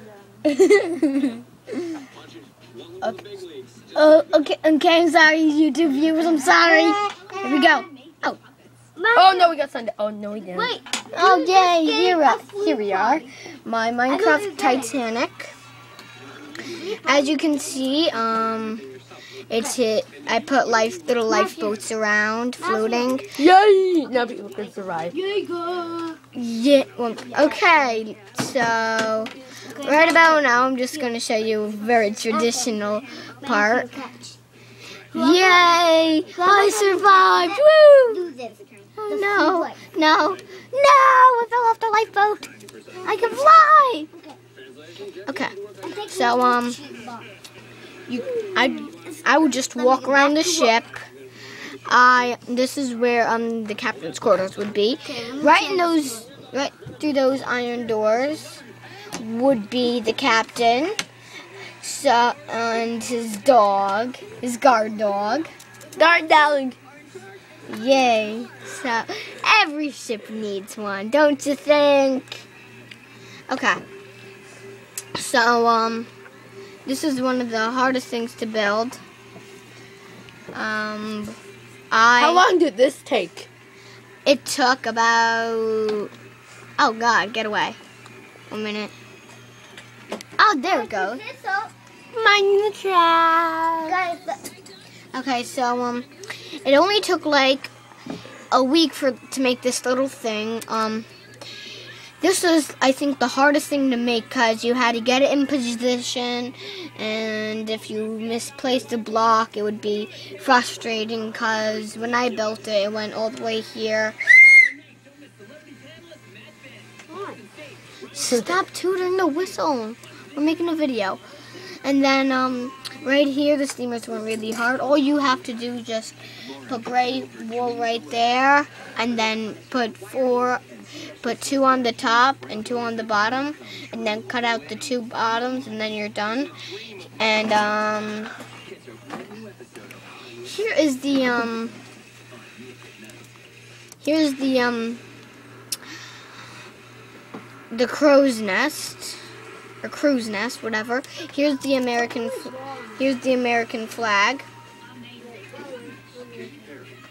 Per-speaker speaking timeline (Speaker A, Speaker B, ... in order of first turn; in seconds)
Speaker A: 0.4-1.4, 3.9-8.4, 11.1-15.5, 17.0-18.9, 19.5-23.3, 26.3-33.9, 35.1-38.3, 39.0-42.5, 43.0-44.1, 45.3-46.8, 48.1-51.1, 51.9-58.6, 59.2-61.0, 61.8-65.5, 67.7-72.5, 73.5-73.8, 75.1-76.1, 76.8-79.0, 80.5-81.4, 81.9-82.5, 84.2-86.1, 86.8-87.8, 88.5-88.9, 90.4-91.2, 95.1-97.7, 98.5-101.1, 102.2-114.2, 118.1-121.2, 121.8-130.6, 131.2-136.5, 137.2-138.3, 140.4-141.8, 144.0-145.0, 147.7-149.2, 149.8-154.4
Speaker B: 6.5-7.8, 9.0-9.6, 10.5-13.2, 14.1-14.9, 16.6-17.8, 21.3-21.7, 22.6-23.2, 24.6-26.2, 27.3-27.8, 29.7-30.4, 32.3-32.8, 33.4-34.4, 35.1-35.8, 36.3-39.8, 45.8-47.3, 49.5-50.7, 55.0-56.1, 90.7-91.7, 93.8-94.5, 152.1-153.0, 155.2-156.7
Speaker C: 9.1-10.7, 23.4-25.1, 66.0-66.8, 82.2-83.5, 92.1-94.0, 118.2-118.5